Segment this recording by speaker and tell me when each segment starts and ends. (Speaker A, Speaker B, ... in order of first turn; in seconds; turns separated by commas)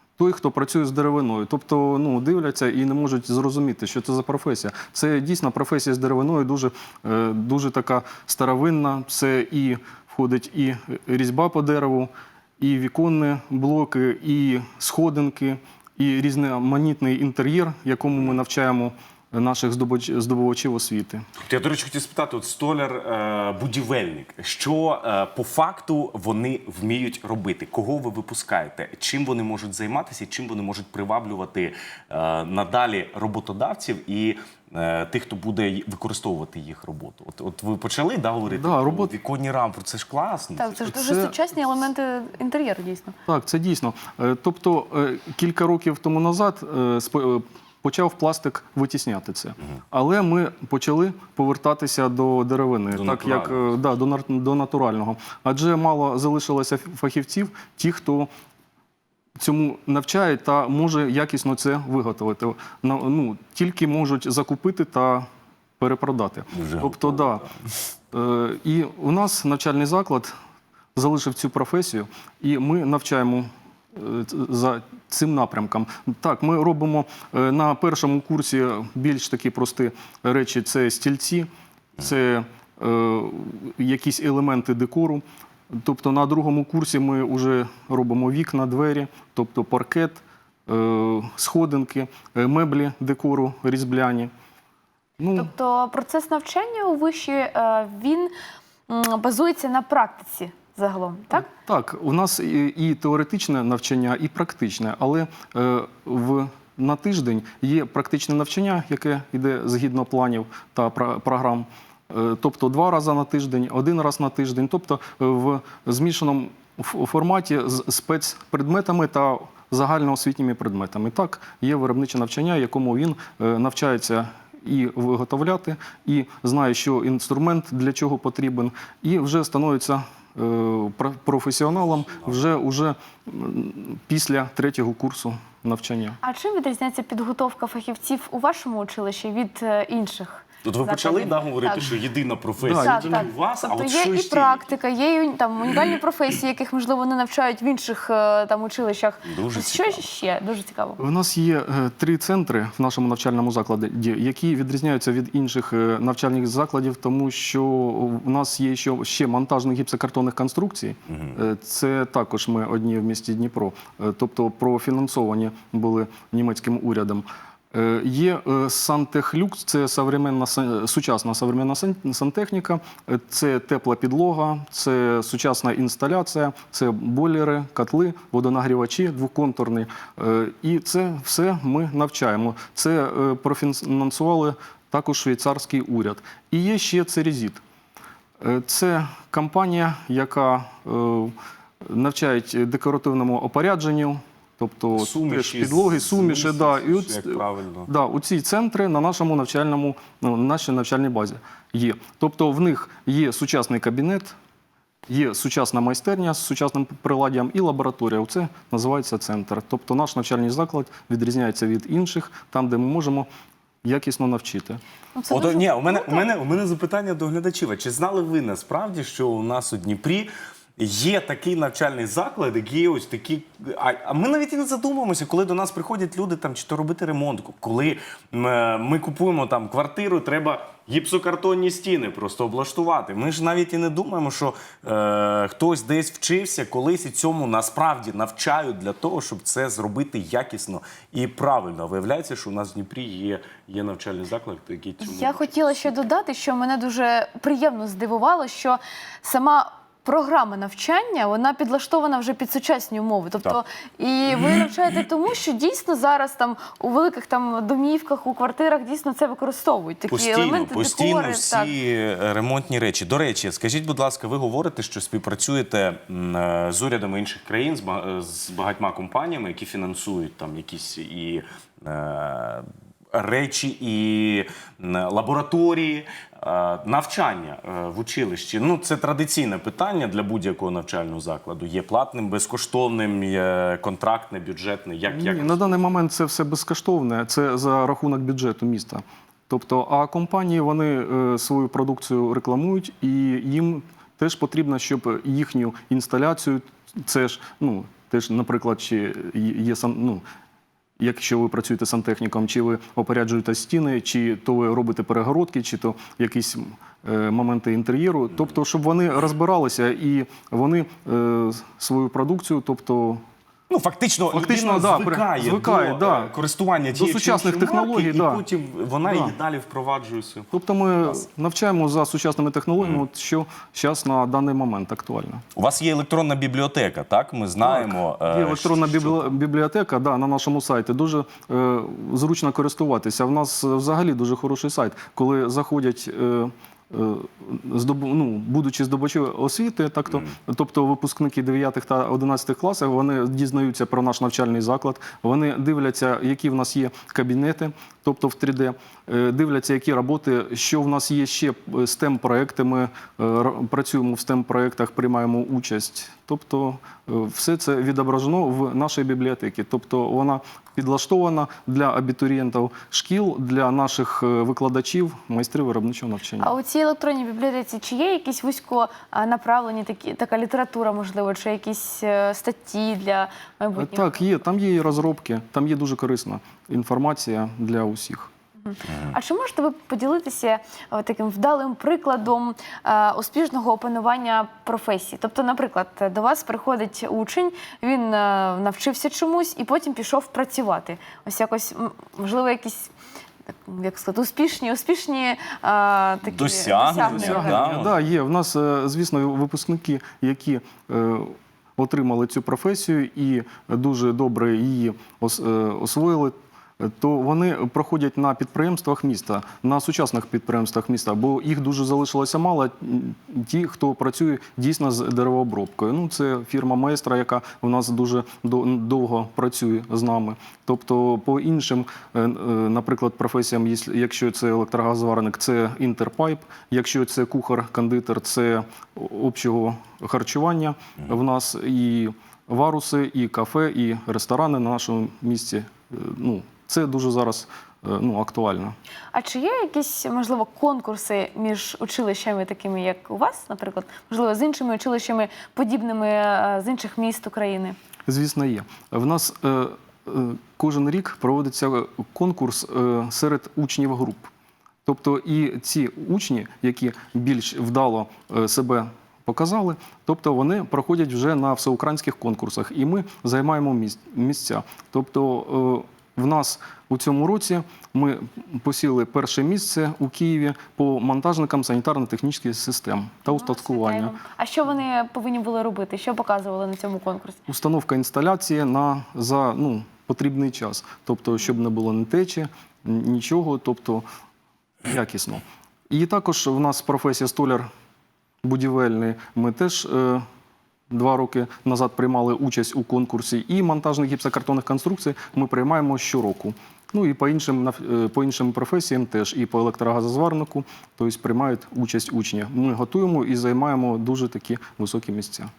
Speaker A: 0.2-21.2, Speaker B: 21.4-40.9, Speaker A: 38.5-39.1, Speaker C: 40.6-43.1, Speaker A: 40.9-41.4, Speaker A: 43.3-58.3, Speaker B: 52.9-53.8, Speaker A: 59.4-65.2, Speaker A: 65.8-67.4, Speaker B: 66.5-67.5, Speaker A: 68.1-70.3, Speaker A: 70.9-81.5, Speaker A: 82.0-94.3, Speaker A: 95.2-95.5, Speaker C: 95.3-98.3, Speaker C: 98.9-101.5, Speaker A: 101.3-136.2, Speaker B: 131.9-132.4, Speaker C: 136.2-142.0, Speaker B: 140.6-144.7, Speaker A: 142.6-143.2, Speaker C: 142.8-151.0, Speaker B: 149.2-150.1, Speaker A: 151.0-187.6, Speaker B: 161.1-161.4, Speaker A: 188.4-191.3, Speaker A: 191.8-204.3, Speaker B: 194.9-197.9, Speaker A: 205.1-213.3, Speaker A: 213.8-214.8, Speaker C: 215.1-216.3, Speaker B: 215.3-246.0, Speaker C: 245.0-261.7, Speaker B: 260.1-286.0, Speaker A: 285.1-300.2, Speaker A: 301.0-313.2, Speaker B: 313.7-320.5, Speaker A: 314.3-316.3, Speaker A: 316.9-318.4, Speaker A: 319.0-319.3, Speaker A: 320.5-325.4, Speaker B: 325.6-329.3, Speaker A: 327.6-366.5, Speaker C: 366.4-374.3, Speaker A: 373.7-378.3, Speaker C: 378.6-392.9, Speaker C: 393.6-397.7, Speaker B: 396.2-398.0, Speaker A: 396.9-438.8, Speaker C: 439.1-447.8, Speaker A: 448.1-454.3, Speaker A: 454.8-474.1, Speaker C: 473.3-477.4, Speaker A: 477.5-484.0, Speaker A: 484.8-487.7, Speaker A: 488.4-490.2, Speaker A: 490.9-505.5